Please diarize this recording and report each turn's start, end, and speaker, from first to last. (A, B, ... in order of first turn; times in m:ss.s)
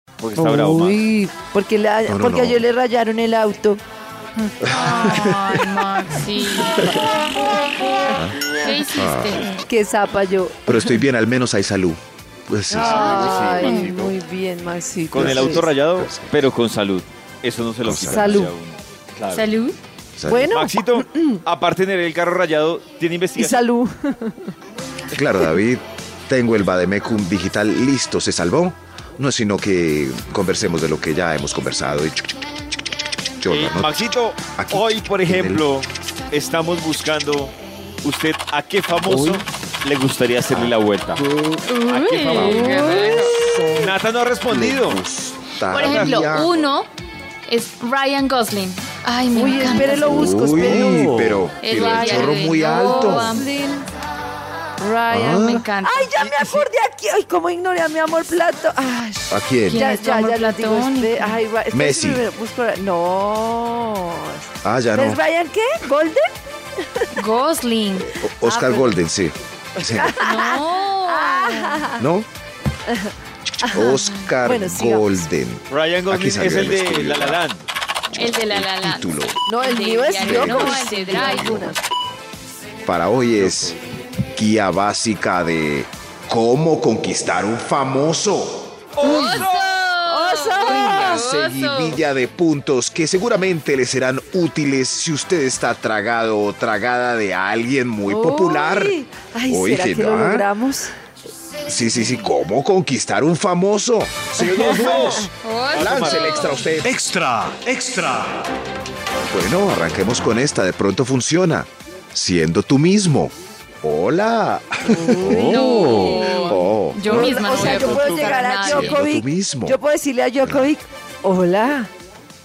0:00.2-0:01.0 A
0:00.4-0:03.8 B
0:02.1-0:02.6 C
0:04.4-0:06.9 D
0:04.6-0:05.8 C
0:06.4-0:07.1 C
0:08.1-0:09.5 C
0:08.6-0:09.6 D
0:09.6-0:10.9 B
0:10.6-0:13.0 C
0:12.7-0:15.7 B
0:12.8-0:14.1 A
0:12.9-0:13.9 D
0:15.1-0:16.3 C
0:15.1-0:19.5 A
0:17.8-0:18.5 C
0:18.0-0:18.5 B
0:19.3-0:19.8 D
0:20.2-0:20.5 C
0:20.2-0:21.4 B
0:20.4-0:23.6 A
0:23.4-0:24.5 B
0:25.1-0:32.4 C
0:33.4-0:35.6 C
0:33.4-0:41.2 A
0:39.0-0:39.4 C
0:40.5-0:41.7 C
0:41.7-0:43.3 D
0:41.9-0:45.0 A
0:42.3-0:46.5 C
0:42.4-0:43.2 B
0:45.7-0:46.9 D
0:45.7-0:46.6 A
0:47.5-0:50.6 D
0:49.3-0:53.8 B
0:49.6-0:53.4 C
0:51.6-0:53.5 D
0:54.8-1:06.3 B
0:55.1-0:55.7 C
0:55.3-0:56.6 D
0:59.3-0:59.8 C
0:59.7-1:01.4 D
1:01.7-1:02.2 C
1:04.6-1:05.2 C
1:07.2-1:08.1 D
1:08.0-1:10.2 C
1:08.4-1:09.0 B
1:09.9-1:12.1 B
1:10.2-1:11.9 D
1:12.0-1:12.3 C
1:12.9-1:15.3 B
1:13.6-1:17.4 C
1:15.7-1:17.6 A
1:18.1-1:19.4 C
1:18.1-1:21.7 D
1:19.5-1:21.8 B
1:20.2-1:21.7 C
1:22.8-1:23.8 C
1:23.4-1:24.0 A
1:24.3-1:28.8 C
1:29.0-1:29.8 A
1:29.0-1:32.0 D
1:29.1-1:29.4 B
1:30.1-1:31.2 B
1:30.6-1:40.5 C
1:38.0-1:40.9 B
1:41.6-1:47.0 C
1:44.4-1:46.5 A
1:44.4-1:45.3 B
1:45.4-1:46.6 D
1:46.8-1:48.4 E
1:49.3-1:57.1 C
1:54.9-2:01.9 B
1:55.3-1:56.1 E
1:55.4-1:59.0 D
1:57.3-1:58.5 A
1:58.6-1:59.8 C